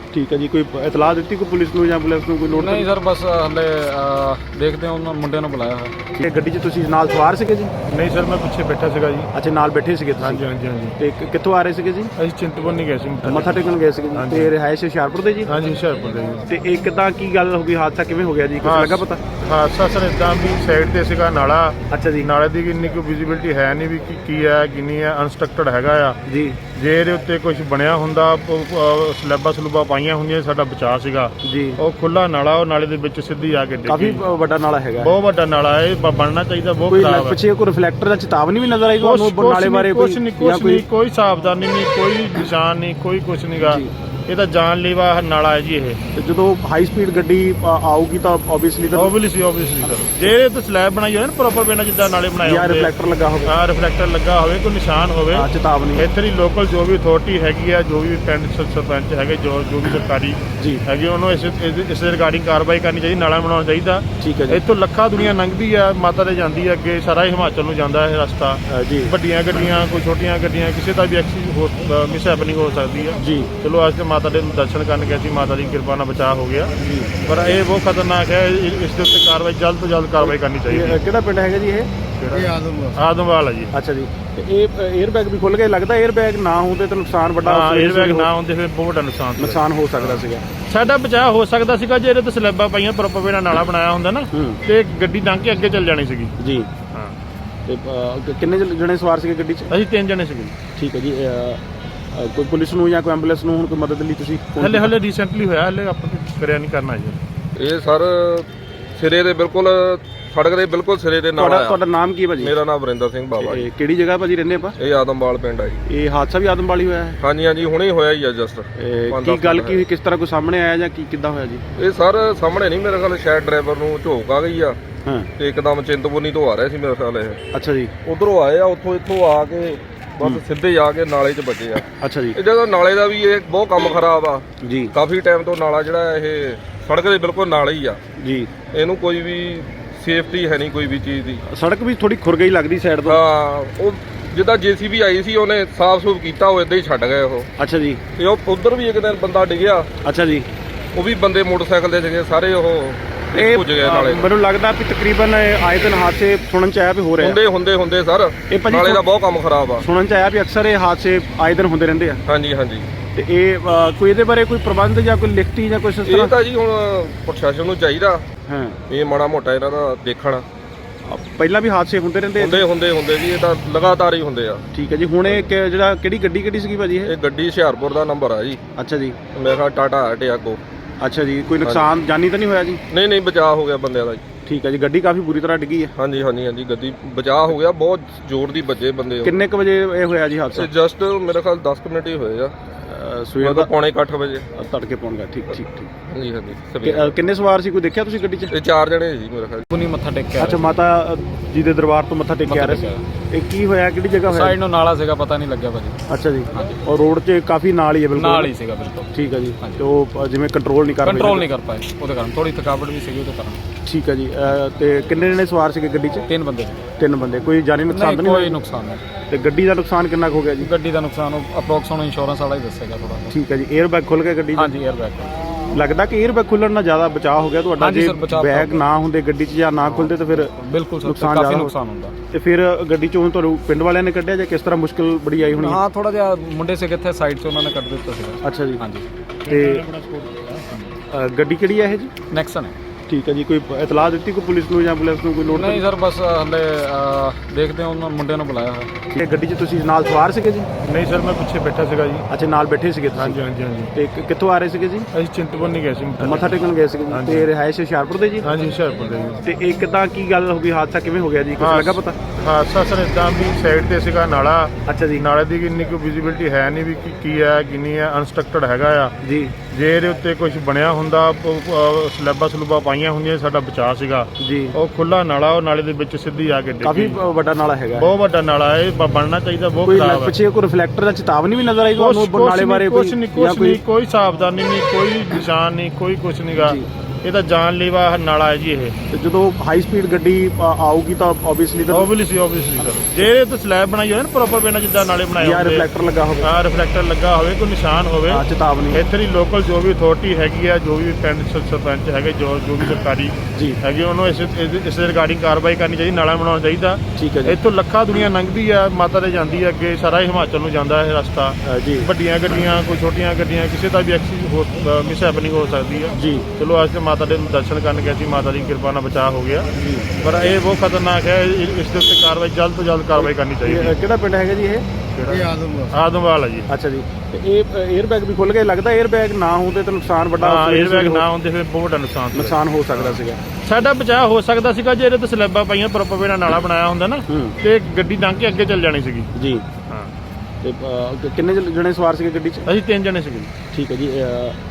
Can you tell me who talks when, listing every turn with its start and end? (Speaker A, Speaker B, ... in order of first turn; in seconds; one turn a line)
Speaker A: 0.1-2.9
Speaker B: 2.5-5.9
Speaker A: 6.1-7.7
Speaker C: 7.9-9.3
Speaker A: 9.3-10.4
Speaker C: 10.2-11.0
Speaker A: 11.0-12.1
Speaker C: 12.2-14.5
Speaker A: 13.2-15.5
Speaker C: 15.4-16.4
Speaker A: 16.5-19.2
Speaker C: 18.6-26.2
Speaker A: 21.9-22.3
Speaker A: 26.3-26.6
Speaker C: 26.7-34.2
Speaker A: 31.4-31.8
Speaker A: 33.9-35.1
Speaker C: 35.0-37.4
Speaker A: 36.9-40.8
Speaker C: 39.0-46.0
Speaker A: 43.6-43.9
Speaker A: 46.1-49.1
Speaker C: 48.9-52.9
Speaker A: 49.8-50.3
Speaker A: 52.4-53.5
Speaker C: 53.5-76.7
Speaker A: 55.3-56.1
Speaker A: 64.2-64.6
Speaker A: 68.7-69.1
Speaker A: 73.2-73.5
Speaker A: 76.8-77.1
Speaker C: 77.2-81.0
Speaker A: 80.2-81.9
Speaker C: 82.2-83.7
Speaker A: 82.5-82.9
Speaker A: 83.7-88.3
Speaker C: 87.4-96.3
Speaker A: 89.4-90.4
Speaker A: 94.3-94.6
Speaker A: 96.4-96.7
Speaker A: 97.7-99.7
Speaker C: 99.7-100.6
Speaker A: 100.8-101.6
Speaker A: 102.1-104.9
Speaker C: 104.6-107.2
Speaker D: 107.5-111.8
Speaker A: 111.3-112.5
Speaker D: 112.4-113.6
Speaker A: 113.4-114.8
Speaker D: 114.8-115.8
Speaker A: 115.9-117.2
Speaker D: 117.2-119.8
Speaker A: 118.8-121.6
Speaker D: 121.8-124.8
Speaker A: 125.0-125.3
Speaker D: 125.4-127.4
Speaker A: 127.5-127.9
Speaker D: 128.1-131.8
Speaker A: 132.0-132.4
Speaker D: 132.3-138.0
Speaker A: 134.6-134.9
Speaker A: 138.2-138.5
Speaker D: 138.7-141.4
Speaker A: 141.5-143.2
Speaker D: 143.1-147.5
Speaker A: 147.6-148.0
Speaker D: 148.2-149.9
Speaker A: 150.0-150.4
Speaker D: 150.9-154.2
Speaker A: 153.3-157.4
Speaker D: 157.2-159.8
Speaker A: 158.5-159.0
Speaker A: 159.8-162.2
Speaker D: 162.3-162.8
Speaker A: 163.2-166.3
Speaker D: 166.1-168.2
Speaker A: 168.5-168.8
Speaker D: 168.9-170.4
Speaker A: 171.1-172.7
Speaker D: 172.4-174.6
Speaker A: 174.7-177.1
Speaker D: 177.0-178.6
Speaker A: 178.8-179.2
Speaker D: 179.3-180.6
Speaker A: 181.0-182.8
Speaker D: 182.9-184.2
Speaker A: 184.4-185.9
Speaker D: 185.9-189.3
Speaker A: 189.2-190.7
Speaker D: 190.6-192.5
Speaker A: 192.9-193.7
Speaker D: 193.4-194.5
Speaker A: 194.5-195.9
Speaker D: 196.1-197.1
Speaker A: 196.8-198.5
Speaker D: 198.5-199.7
Speaker B: 199.7-200.8
Speaker A: 200.4-204.6
Speaker B: 202.4-203.0
Speaker B: 204.3-206.0
Speaker A: 206.1-208.5
Speaker B: 206.5-206.8
Speaker B: 208.2-209.1
Speaker A: 209.1-211.4
Speaker B: 211.0-213.6
Speaker A: 213.8-216.2
Speaker B: 216.3-216.8
Speaker A: 217.0-218.6
Speaker B: 217.9-219.0
Speaker A: 219.3-220.7
Speaker B: 220.6-223.3
Speaker A: 223.3-224.7
Speaker B: 224.6-225.2
Speaker A: 225.7-230.5
Speaker B: 227.8-228.8
Speaker B: 229.8-232.1
Speaker A: 231.0-231.7
Speaker A: 232.3-235.8
Speaker B: 235.5-240.9
Speaker A: 238.4-238.8
Speaker A: 239.4-239.8
Speaker A: 241.1-242.1
Speaker B: 242.3-242.7
Speaker A: 243.1-245.8
Speaker B: 245.5-248.9
Speaker A: 249.1-250.7
Speaker C: 250.8-252.3
Speaker A: 252.3-253.4
Speaker C: 253.1-253.9
Speaker A: 253.9-255.1
Speaker C: 255.1-256.5
Speaker A: 256.2-258.4
Speaker C: 257.1-257.5
Speaker C: 258.4-259.4
Speaker A: 259.4-262.2
Speaker C: 261.6-269.1
Speaker A: 264.9-265.2
Speaker A: 269.2-269.5
Speaker C: 269.6-277.2
Speaker A: 274.4-274.7
Speaker A: 276.8-278.1
Speaker C: 278.0-280.3
Speaker A: 279.8-283.8
Speaker C: 282.0-288.9
Speaker A: 286.5-286.8
Speaker A: 289.1-292.1
Speaker C: 291.9-295.9
Speaker A: 295.4-296.5
Speaker C: 296.4-319.7
Speaker A: 298.3-299.0
Speaker A: 307.1-307.6
Speaker A: 311.6-312.1
Speaker A: 316.1-316.4
Speaker A: 319.7-320.1
Speaker C: 320.2-323.9
Speaker A: 323.1-324.8
Speaker C: 325.1-326.7
Speaker A: 326.7-331.2
Speaker C: 330.4-339.3
Speaker A: 332.3-333.4
Speaker A: 337.3-337.6
Speaker A: 339.4-339.6
Speaker A: 340.6-342.6
Speaker C: 342.6-343.6
Speaker A: 343.7-344.6